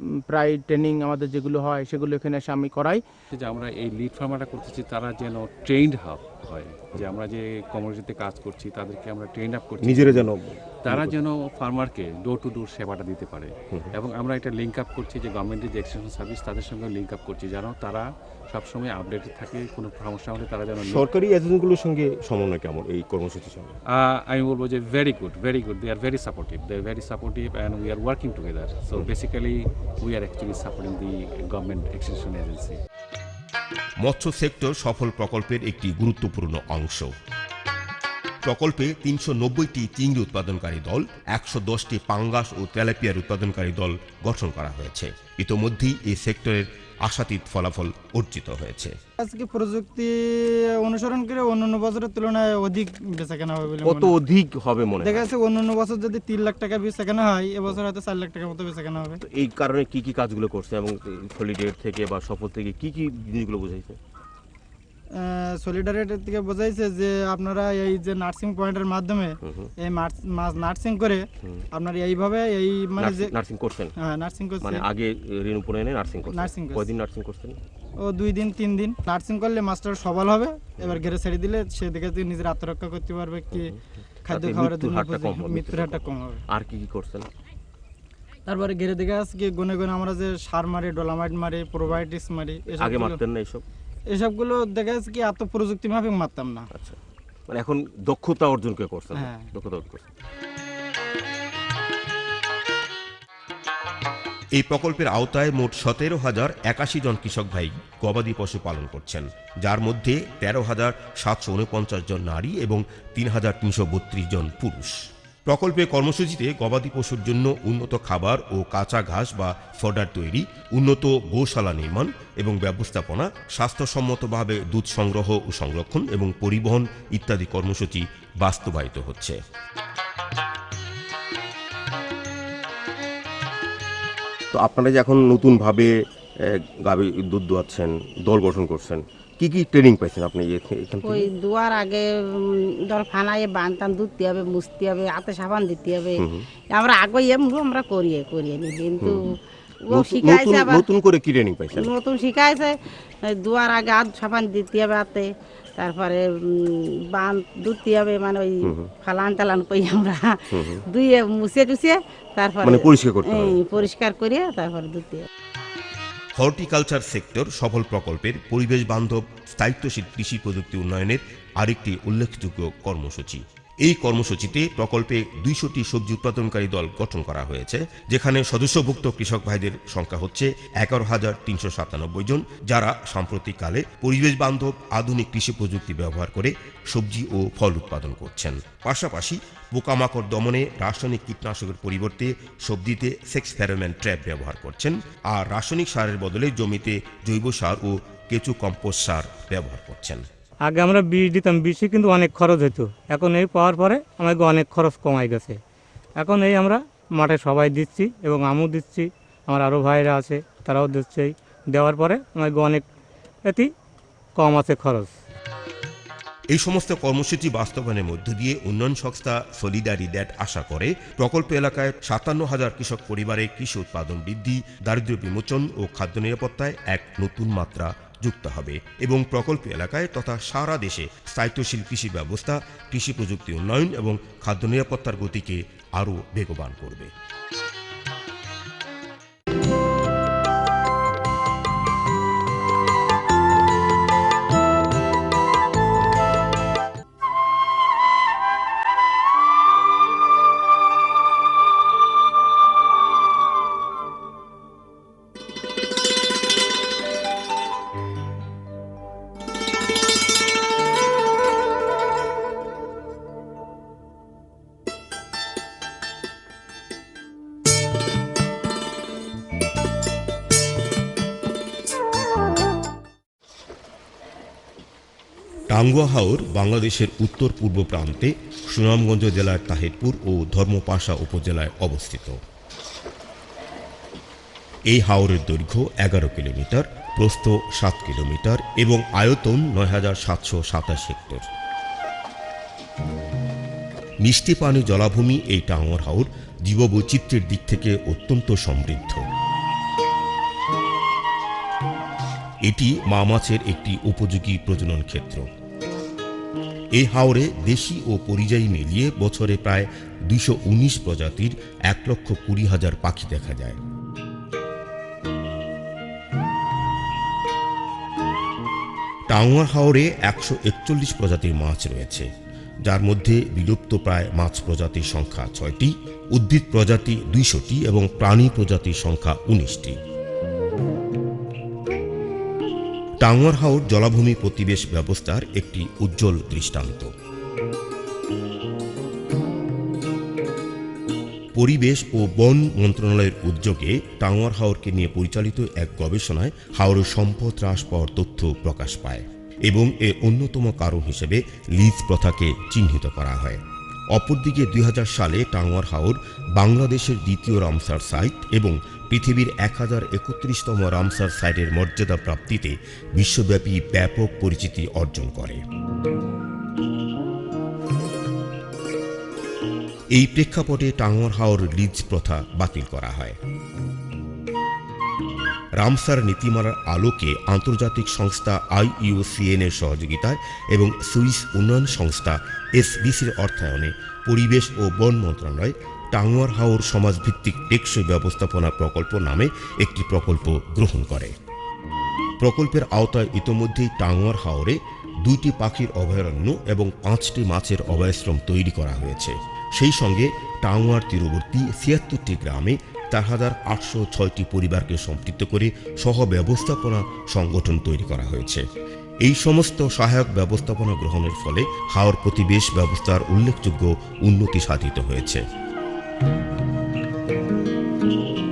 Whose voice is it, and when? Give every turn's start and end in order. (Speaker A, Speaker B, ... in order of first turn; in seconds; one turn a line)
Speaker A: 0.3-3.0
Speaker B: 3.3-21.0
Speaker C: 9.9-11.1
Speaker C: 20.8-23.8
Speaker B: 24.0-32.8
Speaker C: 34.0-37.1
Speaker C: 38.4-49.0
Speaker D: 49.2-50.1
Speaker D: 50.8-54.1
Speaker E: 53.8-55.2
Speaker D: 55.0-59.2
Speaker E: 59.2-64.0
Speaker D: 65.2-73.3
Speaker E: 73.0-73.9
Speaker D: 74.0-74.8
Speaker E: 74.6-77.6
Speaker D: 76.3-76.9
Speaker D: 78.0-83.7
Speaker E: 80.8-81.1
Speaker E: 83.5-83.8
Speaker D: 84.3-86.4
Speaker E: 84.3-87.3
Speaker D: 88.5-93.2
Speaker E: 92.7-93.6
Speaker D: 94.1-96.7
Speaker E: 97.5-100.0
Speaker D: 99.1-99.5
Speaker C: 104.5-129.4
Speaker E: 134.5-141.3
Speaker F: 141.0-150.9
Speaker C: 151.1-151.6
Speaker F: 151.8-165.3
Speaker E: 162.6-163.8
Speaker C: 166.4-200.2
Speaker G: 200.7-205.6
Speaker G: 206.2-212.9
Speaker G: 213.5-213.7
Speaker G: 214.4-215.1
Speaker C: 216.5-237.1
Speaker C: 275.7-282.4
Speaker C: 284.9-291.4
Speaker C: 294.2-299.2
Speaker C: 302.6-305.4
Speaker C: 306.9-313.8
Speaker C: 319.3-322.3
Speaker C: 322.9-330.0
Speaker C: 333.2-337.1
Speaker C: 341.6-353.6
Speaker C: 354.1-365.6
Speaker C: 370.1-373.4
Speaker C: 375.8-391.3
Speaker C: 392.4-408.6
Speaker C: 409.2-415.4